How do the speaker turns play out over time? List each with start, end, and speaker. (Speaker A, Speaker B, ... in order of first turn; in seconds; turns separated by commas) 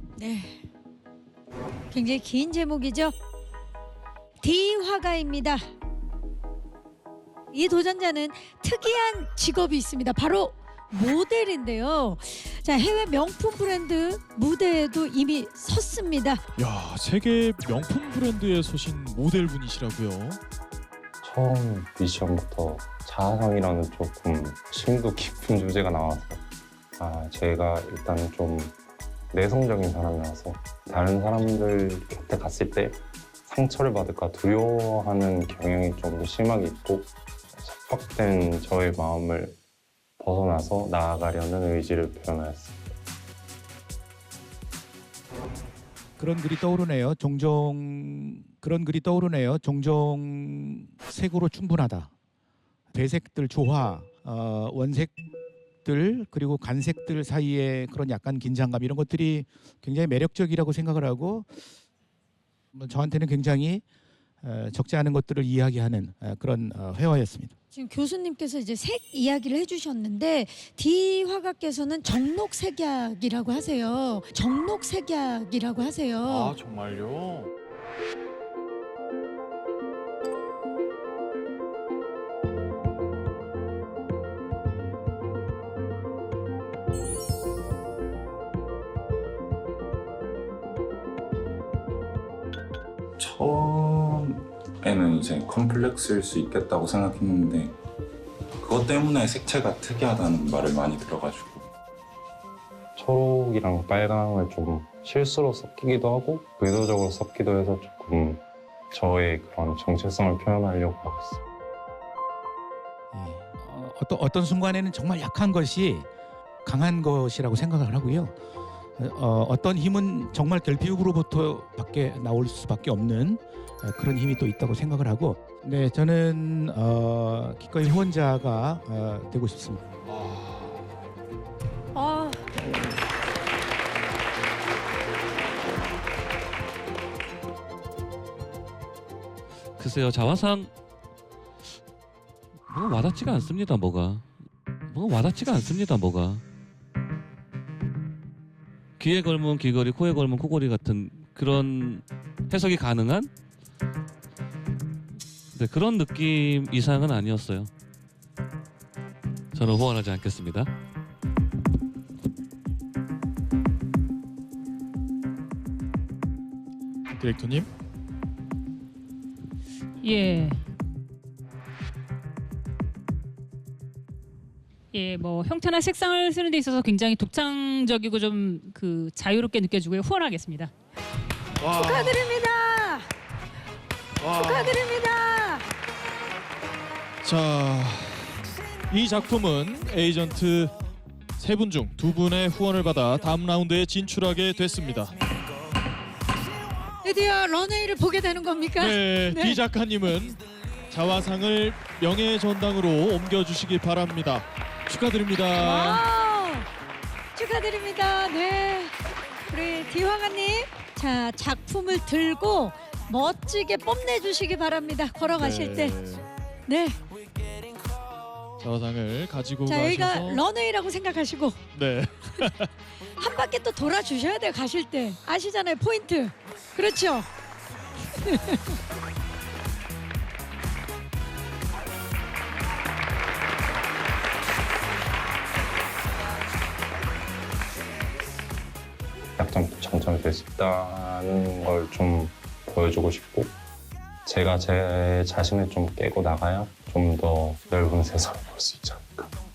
Speaker A: 0.2-0.6, Speaker A: 1.9-3.1, Speaker A: 4.4-5.6, Speaker A: 7.5-16.4, Speaker B: 16.6-20.4, Speaker C: 21.2-26.4, Speaker C: 27.0-28.7, Speaker C: 29.3-39.6, Speaker C: 40.2-42.9, Speaker D: 46.2-52.1, Speaker D: 52.9-55.1, Speaker D: 55.8-61.5, Speaker D: 62.7-63.8, Speaker D: 64.4-67.5, Speaker A: 67.7-76.5, Speaker B: 76.2-77.5, Speaker E: 93.2-97.7, Speaker E: 98.6-101.7, Speaker C: 103.0-111.3, Speaker D: 113.1-116.1, Speaker D: 116.6-118.3, Speaker D: 119.0-129.8, Speaker A: 131.9-132.4, Speaker F: 139.8-140.7, Speaker F: 142.7-144.2, Speaker F: 144.9-146.4, Speaker F: 149.0-153.3, Speaker F: 155.5-157.7, Speaker F: 159.5-160.7, Speaker B: 167.2-167.7, Speaker G: 170.0-170.6, Speaker G: 174.9-180.7, Speaker B: 181.6-182.3, Speaker A: 181.7-183.1, Speaker B: 184.2-184.9, Speaker A: 184.3-185.7, Speaker B: 187.2-188.3, Speaker B: 188.9-190.7, Speaker B: 191.4-195.1, Speaker A: 197.0-199.6, Speaker B: 198.8-206.0, Speaker A: 205.6-206.7, Speaker A: 207.3-208.9, Speaker A: 209.4-215.9, Speaker B: 215.3-216.2, Speaker A: 216.7-217.0, Speaker B: 218.6-220.4, Speaker A: 219.7-221.6, Speaker B: 221.7-222.7, Speaker A: 223.2-227.3, Speaker A: 228.2-228.8, Speaker C: 239.4-243.5, Speaker C: 244.2-249.3